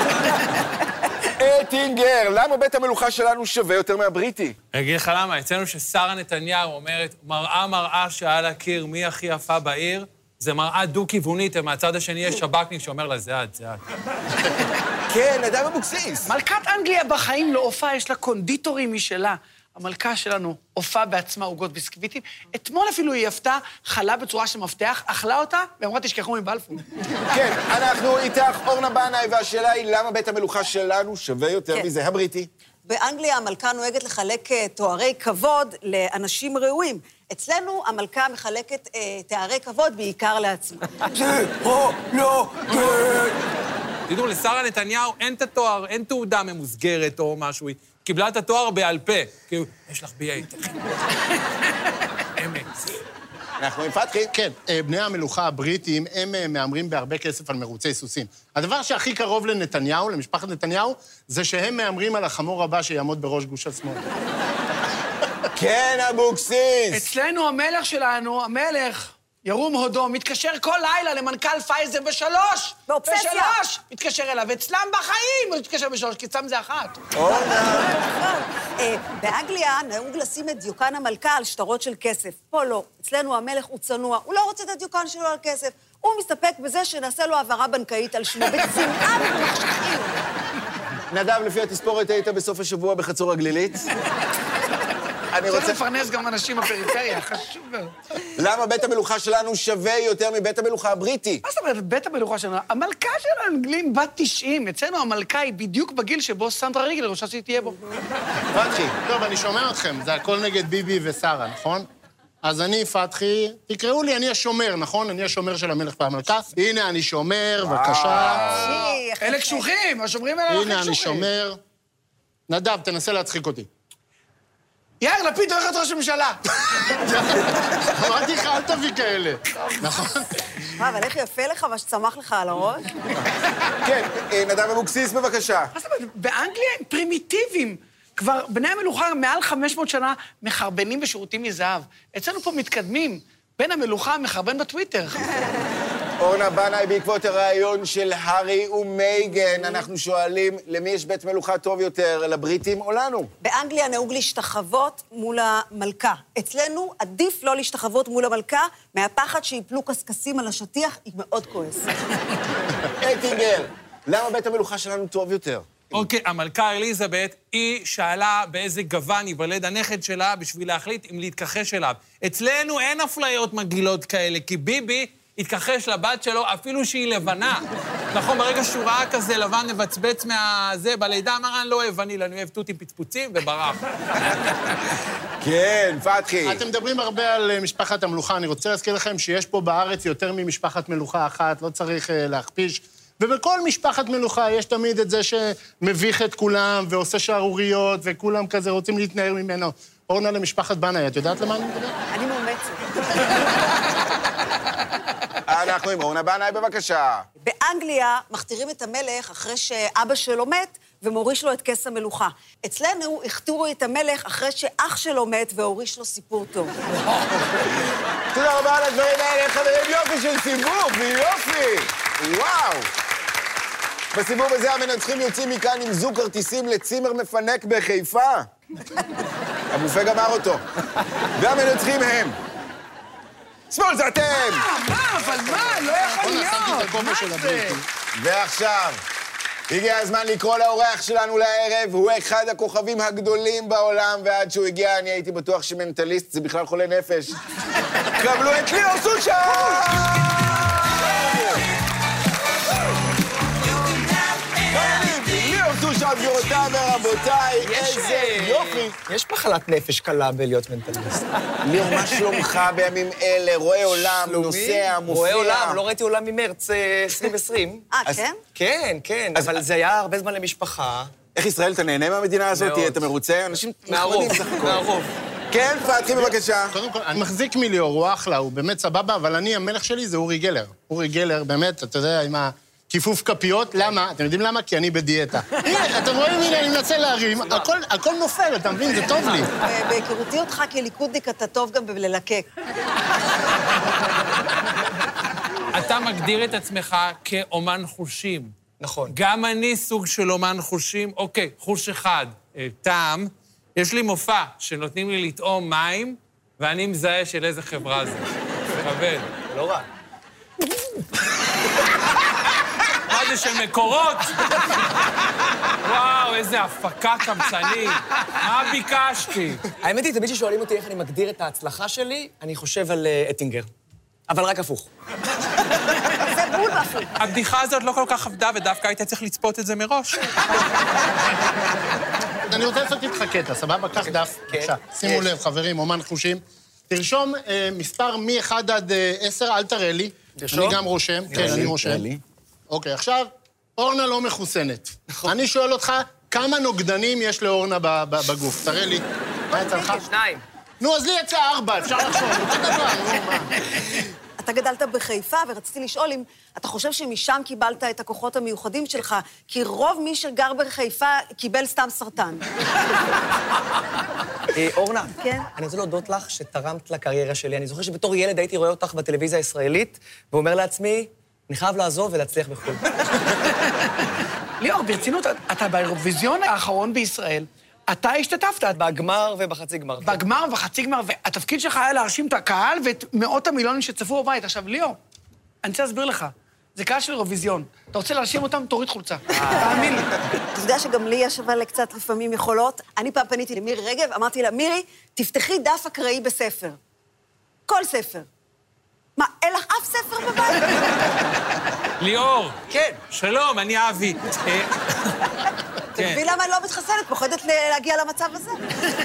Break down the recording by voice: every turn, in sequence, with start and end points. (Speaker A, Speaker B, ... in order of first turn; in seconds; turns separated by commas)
Speaker A: 1.4-4.6, Speaker B: 4.7-13.8, Speaker A: 15.1-16.3, Speaker C: 16.2-26.8, Speaker A: 27.3-32.5, Speaker D: 32.9-40.9, Speaker E: 41.1-43.4, Speaker B: 44.1-50.8, Speaker B: 52.4-52.9, Speaker A: 53.6-54.3, Speaker F: 54.3-64.0, Speaker A: 65.5-67.1, Speaker C: 66.9-77.0, Speaker D: 72.9-73.6, Speaker A: 77.1-77.9, Speaker D: 77.2-90.2, Speaker A: 91.1-93.9, Speaker A: 95.3-95.8, Speaker C: 95.4-98.0, Speaker A: 98.3-101.4, Speaker C: 101.4-107.8, Speaker A: 108.5-109.0, Speaker F: 109.0-111.8, Speaker F: 112.4-118.6, Speaker A: 117.6-118.9, Speaker D: 118.3-119.7, Speaker C: 119.2-121.3, Speaker F: 120.5-121.6, Speaker F: 122.5-123.7, Speaker C: 125.0-126.9, Speaker F: 126.8-130.4, Speaker D: 130.7-132.9, Speaker A: 133.8-135.7, Speaker C: 135.7-145.3, Speaker A: 146.2-153.3, Speaker D: 153.4-161.9, Speaker A: 163.0-166.0, Speaker B: 165.9-184.3, Speaker A: 185.4-186.6, Speaker F: 186.4-202.0, Speaker D: 202.1-203.3, Speaker A: 205.5-207.3, Speaker D: 207.4-216.8, Speaker A: 217.6-222.9, Speaker A: 224.1-228.5, Speaker A: 229.7-230.6, Speaker A: 231.3-232.4, Speaker A: 233.7-234.7, Speaker C: 234.3-237.8, Speaker F: 235.5-237.9, Speaker A: 238.1-239.0, Speaker A: 239.7-247.4, Speaker A: 248.1-251.7, Speaker A: 254.6-258.9, Speaker E: 257.6-261.3, Speaker A: 261.6-265.8, Speaker E: 263.9-267.9, Speaker D: 267.9-268.4, Speaker E: 268.5-271.1, Speaker A: 269.3-269.6, Speaker A: 271.3-274.8, Speaker E: 272.5-273.1, Speaker E: 273.9-275.1, Speaker A: 275.5-276.8, Speaker F: 276.7-289.5, Speaker D: 289.6-292.5, Speaker B: 295.7-298.5, Speaker E: 298.8-299.2, Speaker B: 299.1-309.3, Speaker E: 309.4-309.9, Speaker B: 313.0-314.8, Speaker B: 315.7-319.7, Speaker E: 319.7-323.7, Speaker E: 324.3-324.9, Speaker D: 326.2-327.1, Speaker B: 327.2-330.5, Speaker F: 332.5-342.1, Speaker E: 334.0-335.2, Speaker E: 340.4-340.8, Speaker A: 341.3-342.2, Speaker E: 341.3-341.6, Speaker F: 342.7-350.1, Speaker D: 349.7-350.0, Speaker E: 350.0-350.4, Speaker F: 350.8-353.6, Speaker D: 354.4-362.5, Speaker E: 364.5-373.3, Speaker D: 365.2-365.5, Speaker C: 374.6-378.8, Speaker E: 378.7-380.2, Speaker C: 380.0-385.0, Speaker C: 385.6-390.1, Speaker E: 389.3-389.6, Speaker D: 389.4-396.8, Speaker D: 397.7-398.3, Speaker D: 399.2-401.1, Speaker B: 402.0-405.4, Speaker D: 405.9-408.6, Speaker B: 406.0-406.2